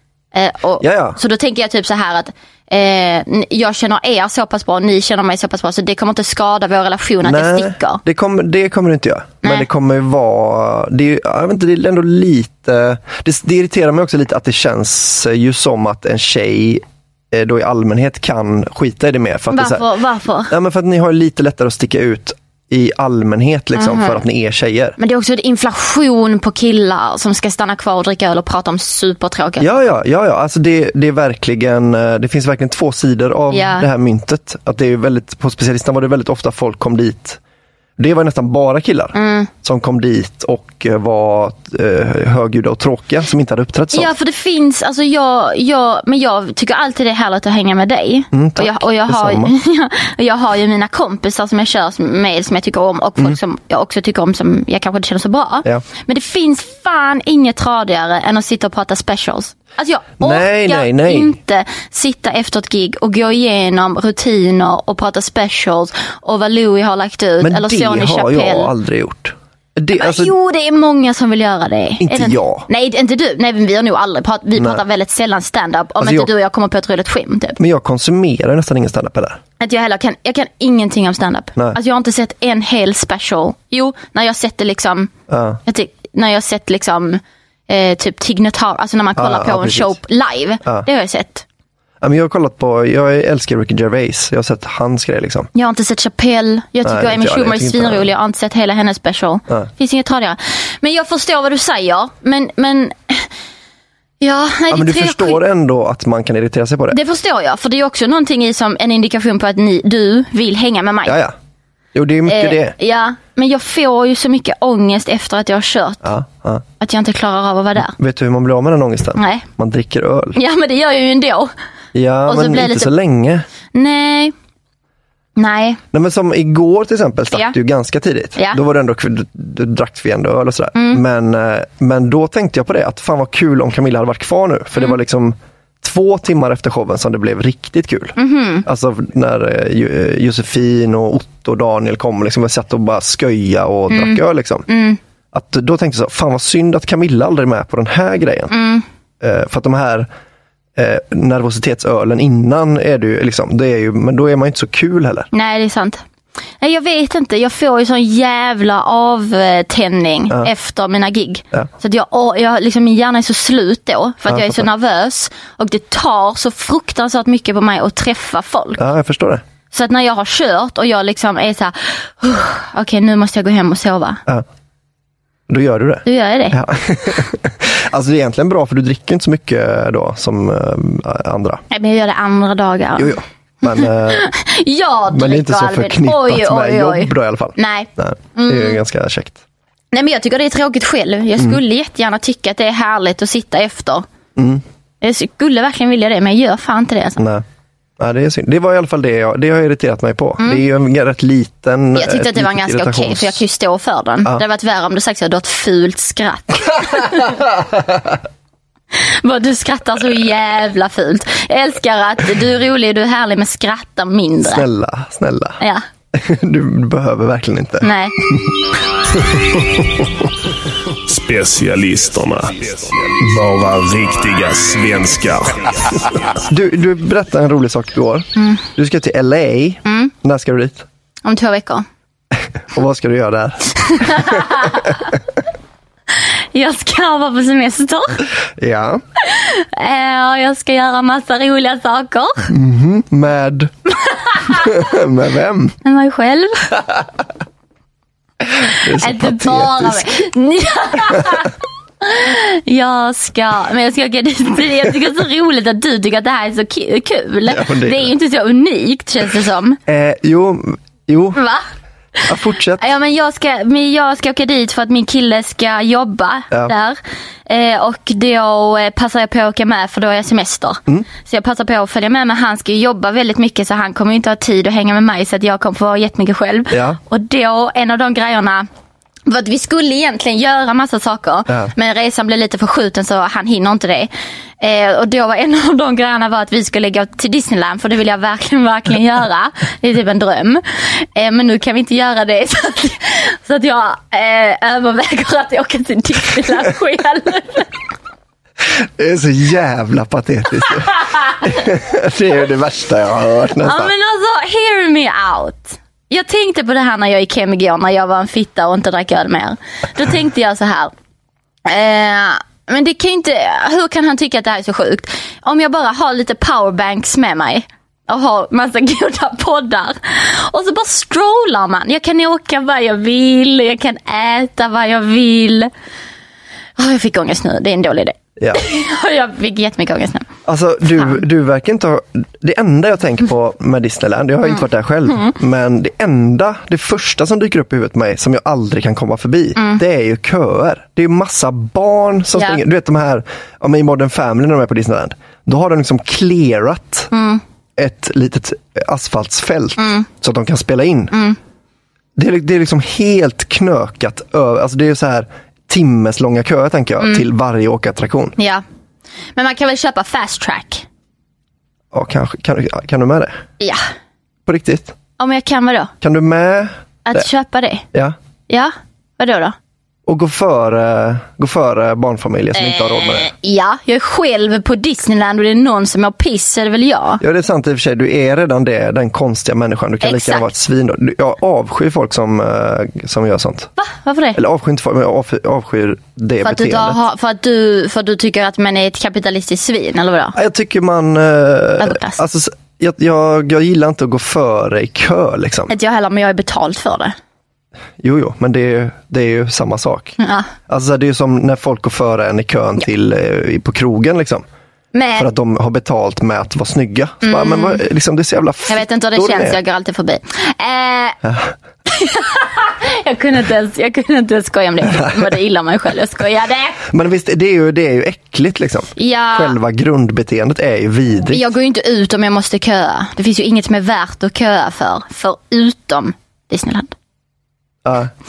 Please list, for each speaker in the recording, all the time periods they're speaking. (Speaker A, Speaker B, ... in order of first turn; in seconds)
Speaker A: 0.3-8.0, 19.5-20.5, 23.8-24.2, 25.0-29.7, 33.5-33.9, 39.1-39.5, 43.9-68.7, 69.9-77.6, 79.6-85.1, 85.7-91.5, 95.5-103.3, 104.2-105.4, 106.9-111.2, 112.3-116.1, 116.8-118.0, 119.2-119.5, 120.4-121.5, 122.3-122.9, 123.7-124.3, 125.4-125.8, 128.4-128.6, 130.8-131.0, 138.2-138.7, 143.9-145.0, 148.5-148.8, 155.3-156.0, 156.6-168.8, 169.7-174.2, 176.1-176.6, 181.7-188.8, 189.9-194.1, 195.0-197.2, 201.9-207.4, 209.0-214.7, 217.8-218.2, 228.4-228.6, 229.9-230.1, 231.2-231.8, 233.9-235.0, 236.5-238.2, 239.2-242.5, 244.1-244.7, 245.8-246.8, 248.8-259.8, 261.4-261.6, 262.2-278.7, 279.3-297.7, 303.6-310.9, 311.7-325.7, 326.8-330.3, 334.5-335.3, 339.6-339.8, 342.4-342.6, 347.1-347.4, 349.8-350.1, 351.1-351.4, 357.0-357.3, 358.4-358.6, 359.4-360.9, 365.2-365.9, 367.1-367.9, 368.5-369.6, 372.6-377.2, 380.0-380.5, 383.8-384.4, 386.4-390.4, 391.8-392.2, 395.7-397.2, 400.2-400.5, 404.9-405.3, 407.2-407.8, 408.7-411.2, 411.9-416.8, 419.0-419.6, 421.3-426.9
Speaker B: 0.8-1.2, 7.2-19.9, 20.5-25.0, 29.6-37.4, 38.0-44.1, 48.3-49.5, 60.2-61.4, 67.4-70.3, 72.0-72.7, 74.5-74.8, 76.0-76.3, 77.6-79.4, 85.3-85.6, 89.2-90.0, 92.0-95.5, 96.8-98.1, 104.7-107.0, 111.1-111.3, 111.9-112.8, 116.0-116.6, 117.8-120.4, 121.9-123.5, 125.9-144.7, 145.3-148.5, 149.2-150.1, 150.8-155.3, 164.3-164.7, 168.8-169.4, 175.5-181.6, 183.0-184.3, 185.1-189.4, 194.4-194.6, 197.2-197.4, 198.0-203.4, 214.4-215.6, 216.1-218.5, 226.4-230.9, 232.7-234.7, 238.6-239.0, 242.5-243.7, 244.5-245.8, 248.7-250.1, 257.5-258.1, 259.9-261.4, 262.3-262.9, 276.7-277.0, 298.8-303.9, 330.5-347.1, 347.8-351.1, 352.2-358.4, 361.9-363.4, 364.5-364.9, 366.0-367.3, 370.1-373.3, 377.2-383.7, 384.4-387.0, 390.4-395.7, 398.0-400.2, 400.7-404.5, 405.2-409.6, 411.2-411.5, 414.9-415.2, 416.9-421.4, 427.9-428.1
Speaker C: 221.1-226.2